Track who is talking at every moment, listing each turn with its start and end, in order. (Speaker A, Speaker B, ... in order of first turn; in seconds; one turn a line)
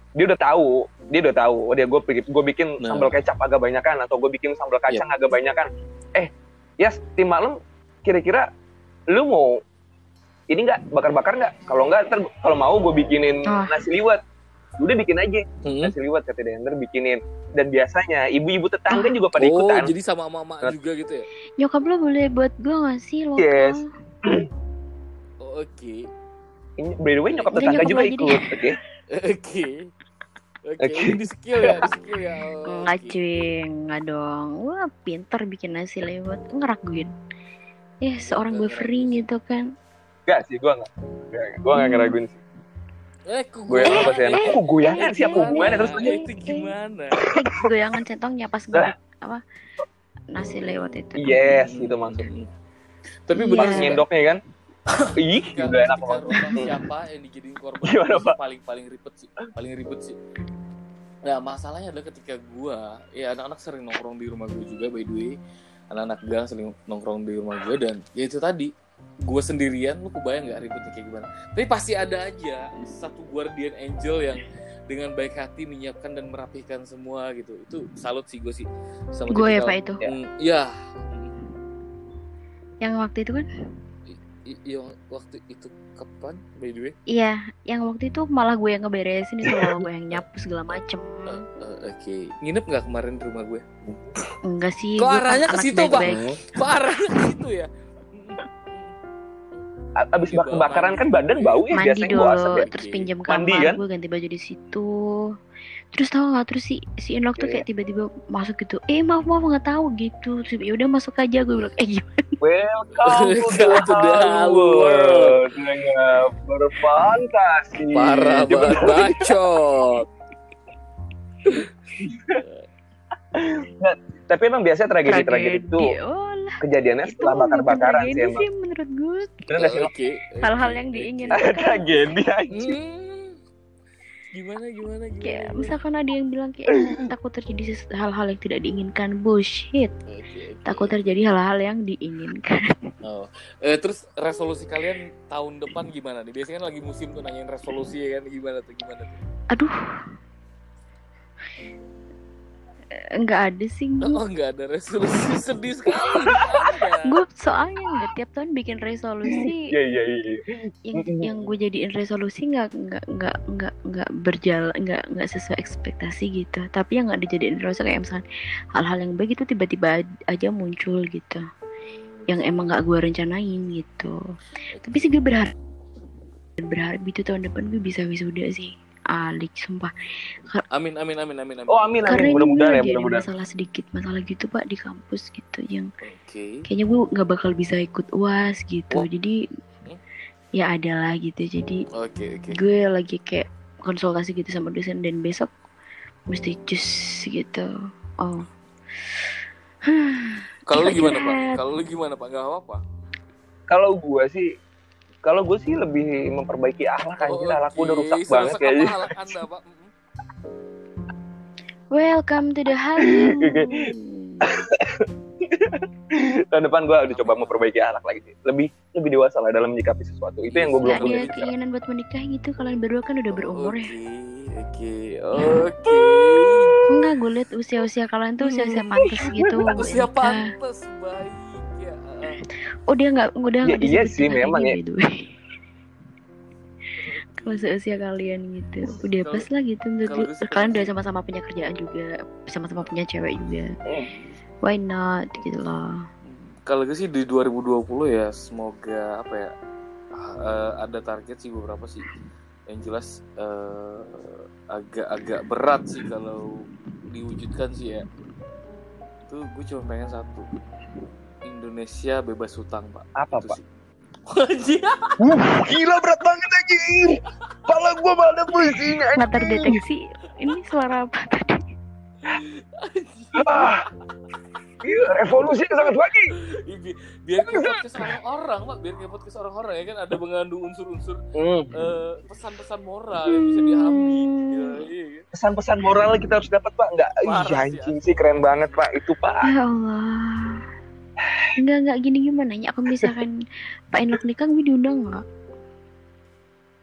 Speaker A: 0.2-8.5
Speaker B: 2.8-3.1
Speaker A: 9.1-9.6
Speaker A: 10.5-14.2
Speaker C: 13.5-13.8
Speaker A: 14.8-19.9
Speaker B: 15.7-15.9
Speaker C: 18.9-19.2
Speaker B: 19.4-21.3
Speaker C: 21.6-23.9
Speaker A: 23.4-24.5
Speaker B: 25.4-26.1
Speaker A: 26.8-28.8
Speaker B: 27.3-28.1
Speaker C: 27.5-28.6
Speaker B: 29.1-29.9
Speaker B: 30.7-33.2
Speaker A: 30.8-31.9
Speaker C: 32.6-37.1
Speaker C: 38.0-39.6
Speaker B: 38.2-39.2
Speaker A: 40.3-42.4
Speaker C: 41.8-42.2
Speaker B: 43.3-47.2
Speaker A: 43.7-46.2
Speaker C: 43.9-46.7
Speaker C: 47.3-49.4
Speaker C: 50.3-51.4
Speaker A: 51.2-52.3
Speaker B: 51.5-52.5
Speaker B: 53.3-54.0
Speaker C: 53.3-54.0
Speaker A: 53.6-54.4
Speaker B: 54.9-60.2
Speaker A: 55.2-56.8
Speaker C: 56.3-56.8
Speaker A: 57.8-58.4
Speaker B: 61.2-65.4
Speaker B: 65.9-68.7
Speaker B: 69.2-81.4
Speaker C: 79.3-80.0
Speaker C: 82.8-83.5
Speaker B: 84.1-86.9
Speaker C: 87.1-91.4
Speaker B: 90.1-93.9
Speaker C: 94.5-96.2
Speaker B: 95.0-98.9
Speaker A: 96.0-96.4
Speaker A: 100.0-102.7
Speaker B: 100.2-103.1
Speaker C: 101.7-104.9
Speaker A: 103.3-103.8
Speaker C: 105.9-112.2
Speaker A: 107.4-107.6
Speaker A: 112.4-119.3
Speaker B: 113.0-115.6
Speaker B: 117.9-120.1
Speaker A: 122.0-122.4
Speaker B: 122.4-122.7
Speaker A: 123.3-125.9
Speaker C: 125.0-129.5
Speaker A: 126.6-128.4
Speaker A: 129.5-129.9
Speaker B: 129.5-131.5
Speaker C: 130.4-132.0
Speaker A: 131.3-132.8
Speaker B: 132.5-133.4
Speaker B: 134.3-135.8
Speaker C: 135.2-139.9
Speaker B: 140.1-140.9
Speaker C: 140.7-142.9
Speaker B: 143.0-149.2
Speaker C: 153.2-154.2
Speaker B: 154.0-157.1
Speaker A: 156.0-156.5
Speaker C: 157.1-159.7
Speaker A: 159.3-161.3
Speaker C: 160.9-168.2
Speaker C: 168.8-171.4
Speaker B: 171.8-172.8
Speaker C: 172.3-174.1
Speaker B: 174.7-175.1
Speaker C: 174.8-175.5
Speaker C: 176.6-179.9
Speaker B: 180.7-182.3
Speaker A: 181.7-183.3
Speaker C: 182.1-185.9
Speaker B: 186.0-186.6
Speaker C: 186.7-189.4
Speaker C: 190.6-191.8
Speaker B: 192.0-192.6
Speaker C: 192.5-195.5
Speaker C: 196.3-197.7
Speaker C: 199.9-201.6
Speaker B: 200.7-202.8
Speaker A: 203.7-204.5
Speaker A: 205.2-209.4
Speaker B: 207.2-209.9
Speaker C: 211.9-214.6
Speaker A: 213.1-213.7
Speaker A: 214.5-221.4
Speaker B: 217.1-217.6
Speaker B: 220.5-221.5
Speaker C: 220.8-223.9
Speaker B: 223.3-226.9
Speaker C: 226.9-230.5
Speaker B: 228.4-229.0
Speaker A: 229.0-229.9
Speaker B: 229.7-232.4
Speaker C: 232.9-235.0
Speaker A: 233.6-234.8
Speaker B: 237.0-238.0
Speaker C: 237.4-243.7
Speaker B: 238.8-239.5
Speaker B: 240.1-240.9
Speaker B: 244.0-244.4
Speaker C: 244.6-245.9
Speaker B: 246.3-249.5
Speaker B: 250.2-252.1
Speaker B: 252.7-258.1
Speaker B: 259.3-260.5
Speaker B: 261.4-263.6
Speaker A: 263.2-263.6
Speaker B: 264.3-265.2
Speaker A: 265.2-269.8
Speaker B: 268.5-269.0
Speaker C: 269.2-271.6
Speaker B: 272.2-273.9
Speaker A: 273.4-273.8
Speaker A: 274.8-276.3
Speaker B: 275.0-275.8
Speaker B: 276.4-281.2
Speaker A: 277.4-278.1
Speaker A: 281.4-281.7
Speaker B: 281.7-285.3
Speaker C: 283.3-284.8
Speaker A: 285.3-289.5
Speaker B: 287.2-288.8
Speaker C: 289.5-290.6
Speaker C: 291.6-293.4
Speaker C: 293.9-295.2